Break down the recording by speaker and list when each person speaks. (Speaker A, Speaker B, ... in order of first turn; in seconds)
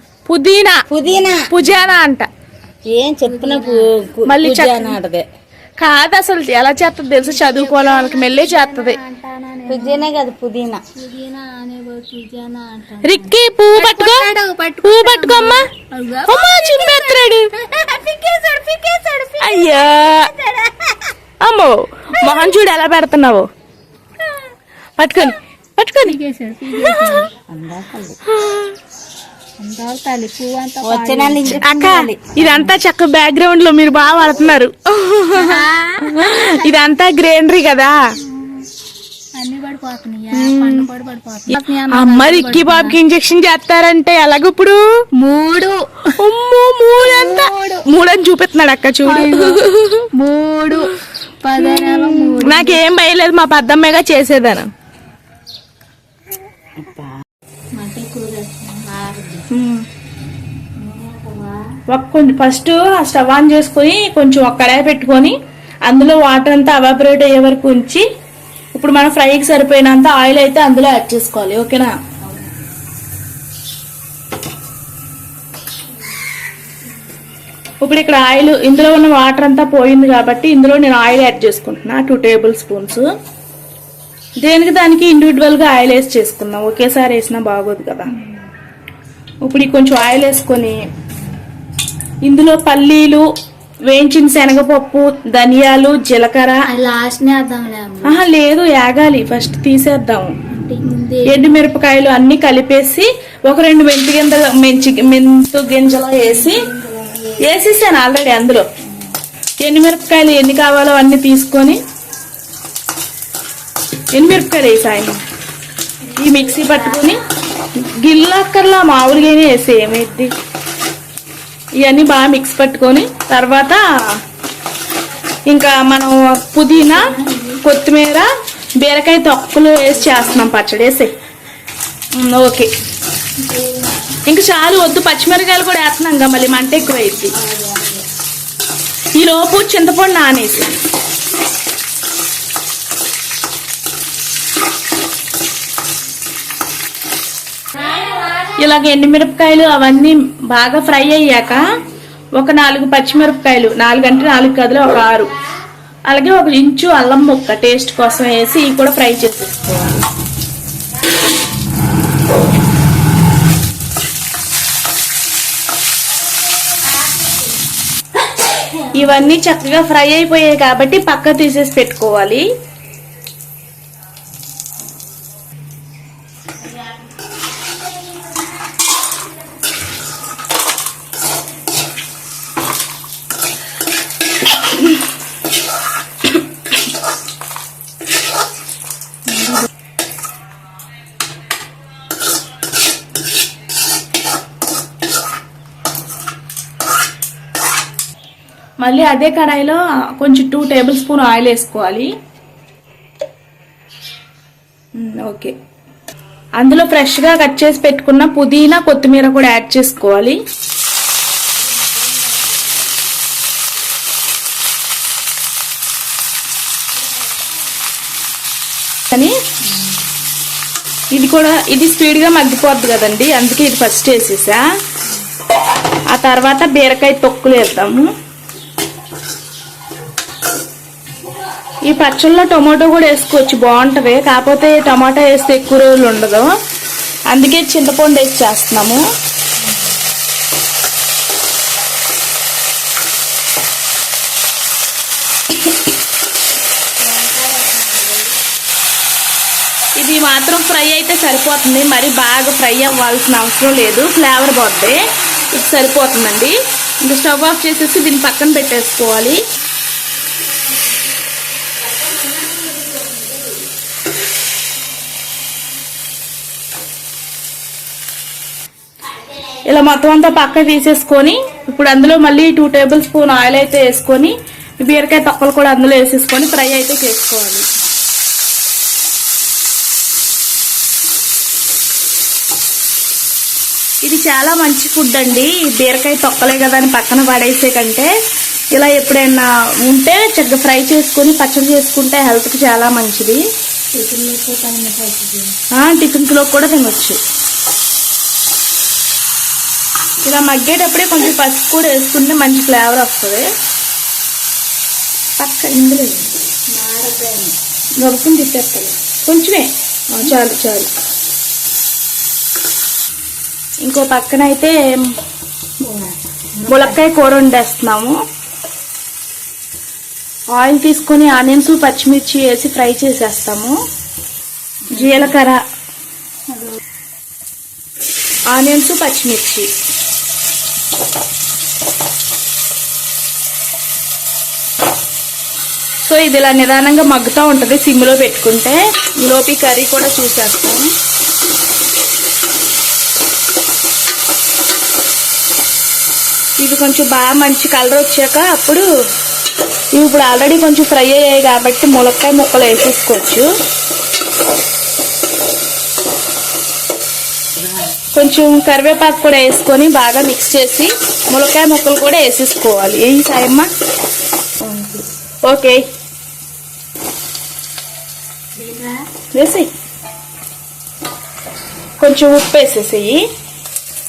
Speaker A: 0.3-0.8, 1.5-2.3, 4.2-5.0, 5.8-9.0, 13.0-14.3, 14.8-15.7, 16.3-17.5, 19.4-20.3, 21.4-23.5, 25.0-26.2, 26.7-27.3, 28.3-28.7, 31.6-38.0, 40.3-40.9, 41.5-44.8, 46.2-50.1, 51.6-54.7, 59.5-59.9, 61.9-68.0, 68.7-71.9, 77.8-83.1, 84.4-88.1, 89.4-90.8, 92.2-93.2, 93.9-96.6, 98.0-100.3, 101.2-106.6, 107.4-108.6, 109.6-111.8, 114.1-115.2, 116.1-117.2, 117.8-120.3, 121.8-123.8, 125.5-127.0, 127.6-128.3, 128.8-131.1, 132.2-132.7, 134.3-137.4, 139.2-140.8, 148.6-151.6, 152.4-155.3, 156.1-160.0, 168.9-172.5, 198.8-202.1, 205.0-205.5, 206.6-210.4, 221.1-224.6, 226.1-228.1, 231.9-236.5, 237.3-239.0, 250.0-259.4, 269.6-277.6, 284.0-288.1, 288.7-293.4, 295.7-297.2, 300.2-303.4, 305.4-306.3, 308.0-310.9, 313.8-314.8, 316.7-318.1, 320.5-323.8, 324.9-325.6, 328.5-329.7, 336.0-340.9, 346.6-348.8, 349.9-353.5, 358.1-363.7, 364.6-365.8, 369.3-369.7, 372.0-373.2
Speaker B: 0.9-1.5, 2.9-5.2, 9.7-10.8, 27.4-28.2, 30.8-32.6
Speaker C: 1.1-1.3, 3.2-3.9, 7.2-10.1, 10.9-20.9, 26.0-27.3, 29.6-31.6, 35.3-36.7, 38.3-38.6, 39.4-43.0, 45.2-45.7, 47.0-47.8, 49.0-49.6, 50.2-50.9, 51.4-52.8, 57.8-59.4, 60.8-61.6, 88.1-88.4, 96.7-98.2, 100.5-101.5, 105.9-107.4, 116.3-117.1, 126.7-127.6, 130.0-130.5, 133.4-134.1, 136.8-138.0, 189.3-189.7, 247.0-248.3, 293.9-295.6, 306.7-307.5, 315.8-317.0, 324.9-325.3, 326.5-326.8, 368.6-369.0